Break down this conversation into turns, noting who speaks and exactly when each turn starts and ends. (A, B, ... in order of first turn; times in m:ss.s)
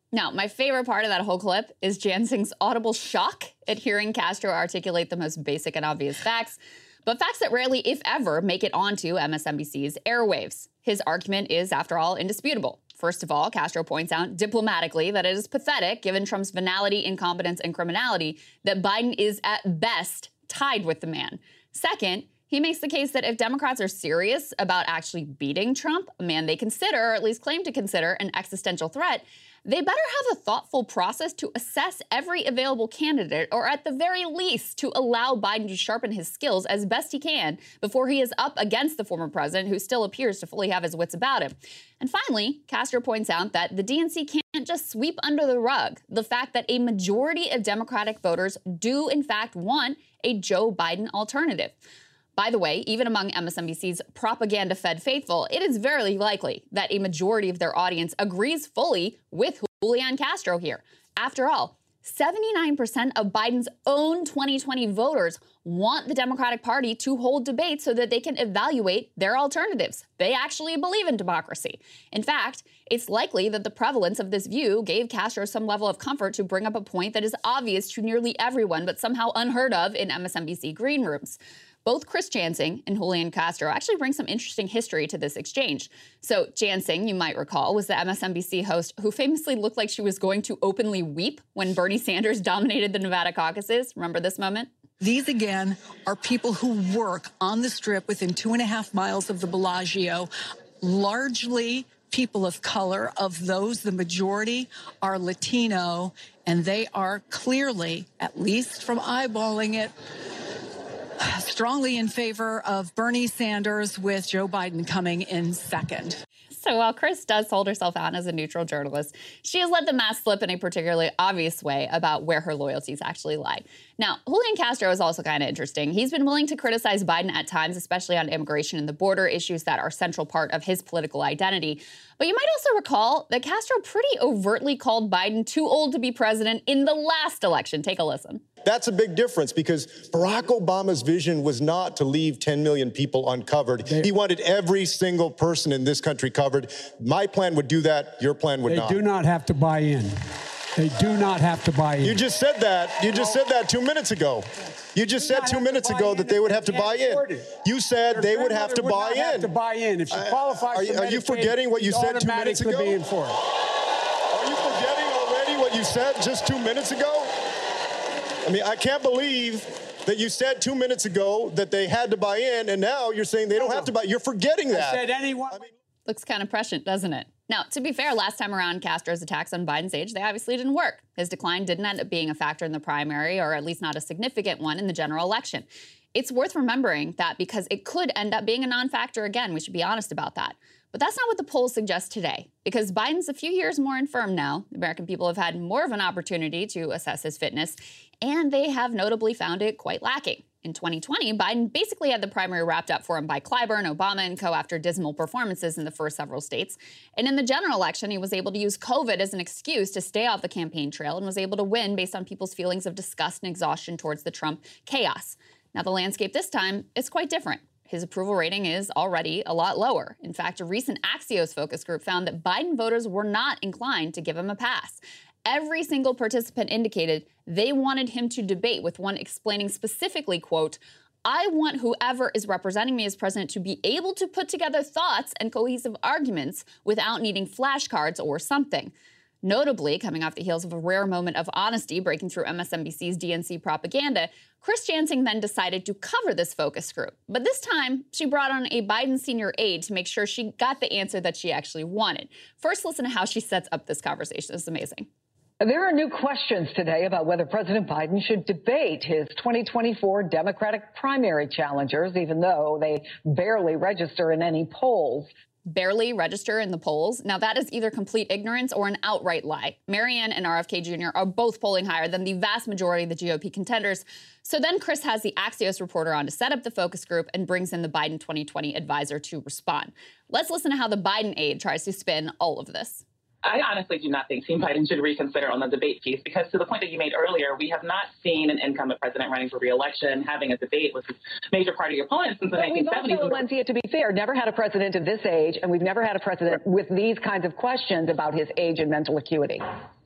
0:00.1-0:51.8 A
0:52.4-1:34.7 A
1:35.0-1:40.3 B
1:40.8-1:49.9 B
1:51.2-1:56.2 B
1:56.5-2:18.4 A
2:18.6-2:29.1 C
2:29.0-2:30.1 D
2:30.8-2:32.2 D
2:32.0-2:43.2 C
2:39.5-2:41.4 D
2:42.1-2:42.9 D
2:44.3-2:47.3 C
2:48.4-2:55.7 C
2:56.1-4:15.1 A
4:15.6-4:25.3 E
4:25.6-4:43.0 A
4:43.4-4:53.4 F
4:52.5-4:59.7 E